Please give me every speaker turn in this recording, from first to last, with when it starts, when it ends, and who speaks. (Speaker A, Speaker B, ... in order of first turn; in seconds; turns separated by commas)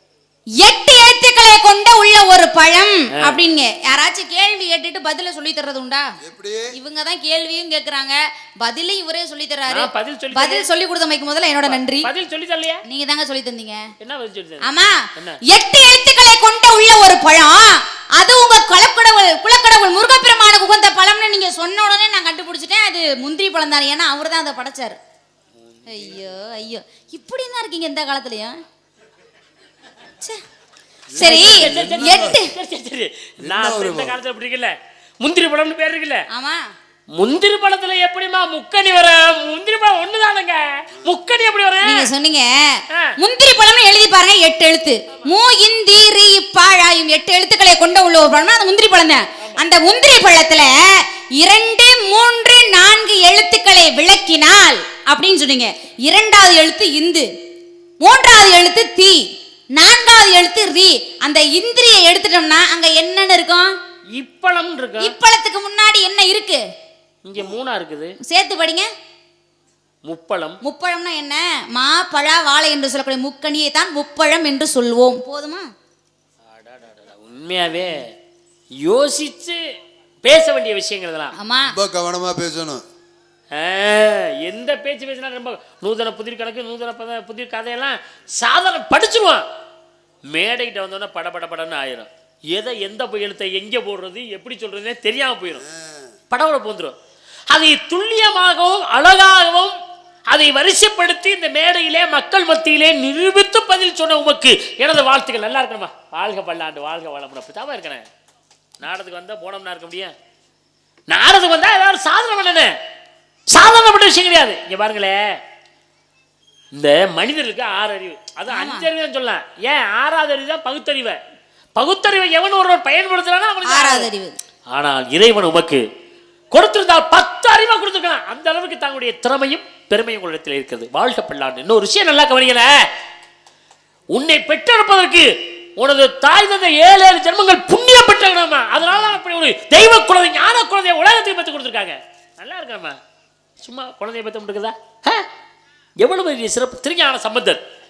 Speaker A: 0.6-6.0, Speaker B: 6.2-6.7, Speaker A: 6.7-12.1, Speaker C: 9.7-10.7, Speaker C: 11.7-12.8, Speaker A: 12.9-13.8, Speaker C: 14.0-15.4, Speaker A: 14.6-15.0, Speaker A: 15.5-24.9, Speaker C: 25.6-26.3, Speaker A: 25.9-28.6, Speaker B: 31.1-32.4, Speaker A: 31.1-32.5, Speaker C: 31.2-36.2, Speaker B: 33.4-34.1, Speaker A: 36.3-36.7, Speaker C: 37.1-42.1, Speaker A: 41.8-50.7, Speaker A: 51.4-57.2, Speaker A: 58.0-59.2, Speaker A: 59.8-63.7, Speaker C: 64.1-65.2, Speaker A: 65.0-66.6, Speaker C: 67.2-68.2, Speaker A: 68.3-68.8, Speaker C: 70.0-70.6, Speaker A: 70.6-75.7, Speaker C: 76.5-78.1, Speaker C: 78.8-79.6, Speaker C: 80.2-81.3, Speaker A: 81.4-81.7, Speaker B: 81.5-82.8, Speaker C: 83.5-89.4, Speaker C: 90.3-95.6, Speaker B: 95.5-96.2, Speaker C: 96.3-97.0, Speaker C: 97.5-99.8, Speaker C: 100.3-108.1, Speaker C: 108.8-110.1, Speaker C: 111.1-112.7, Speaker C: 113.5-115.4, Speaker C: 116.7-121.2, Speaker A: 118.5-118.9, Speaker C: 121.7-124.1, Speaker A: 123.7-124.4, Speaker C: 124.7-125.8, Speaker C: 126.5-132.9, Speaker C: 134.1-143.0, Speaker A: 138.8-139.2, Speaker C: 143.6-145.3, Speaker C: 146.0-147.6